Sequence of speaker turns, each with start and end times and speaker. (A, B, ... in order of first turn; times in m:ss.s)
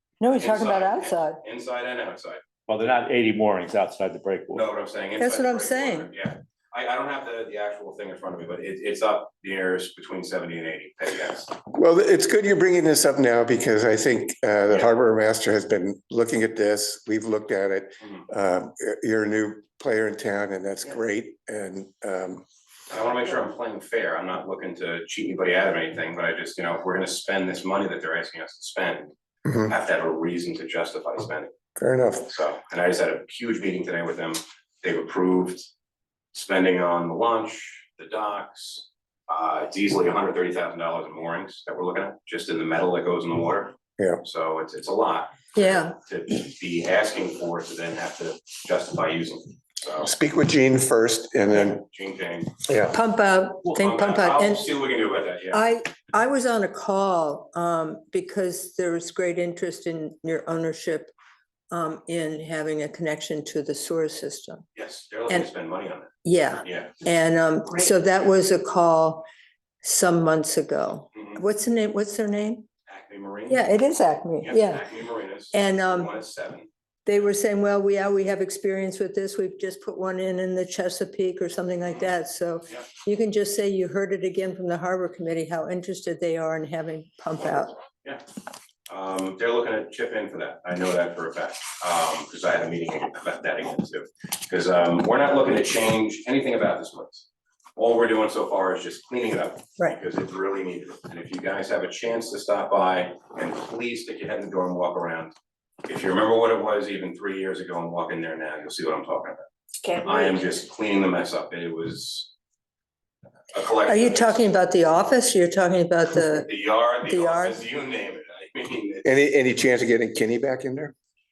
0:00.2-0:01.4 A
0:00.3-0:02.4 B
0:02.7-0:04.6 C
0:04.5-0:11.5 B
0:05.2-0:06.1 A
0:11.7-0:22.4 D
0:22.9-0:29.1 B
0:29.4-0:29.7 D
0:29.6-0:31.5 B
0:31.8-0:32.3 D
0:32.2-0:35.7 B
0:36.3-0:50.1 B
0:45.5-0:45.9 A
0:50.0-0:51.8 D
0:51.5-0:52.7 B
0:52.6-0:53.0 D
0:52.9-0:54.7 A
0:53.6-0:55.6 B
0:55.5-1:01.1 A
1:01.7-1:04.6 A
1:04.7-1:07.0 B
1:06.2-1:09.2 A
1:09.8-1:12.7 A
1:12.9-1:13.7 B
1:13.5-1:14.8 A
1:14.4-1:16.7 B
1:15.5-1:16.1 A
1:17.0-1:27.7 A
1:28.9-1:45.3 B
1:45.8-1:49.4 B
1:50.0-1:52.3 B
1:53.5-1:54.4 B
1:53.8-1:56.5 A
1:56.2-1:59.0 B
1:57.0-1:57.6 A
1:59.0-2:00.9 D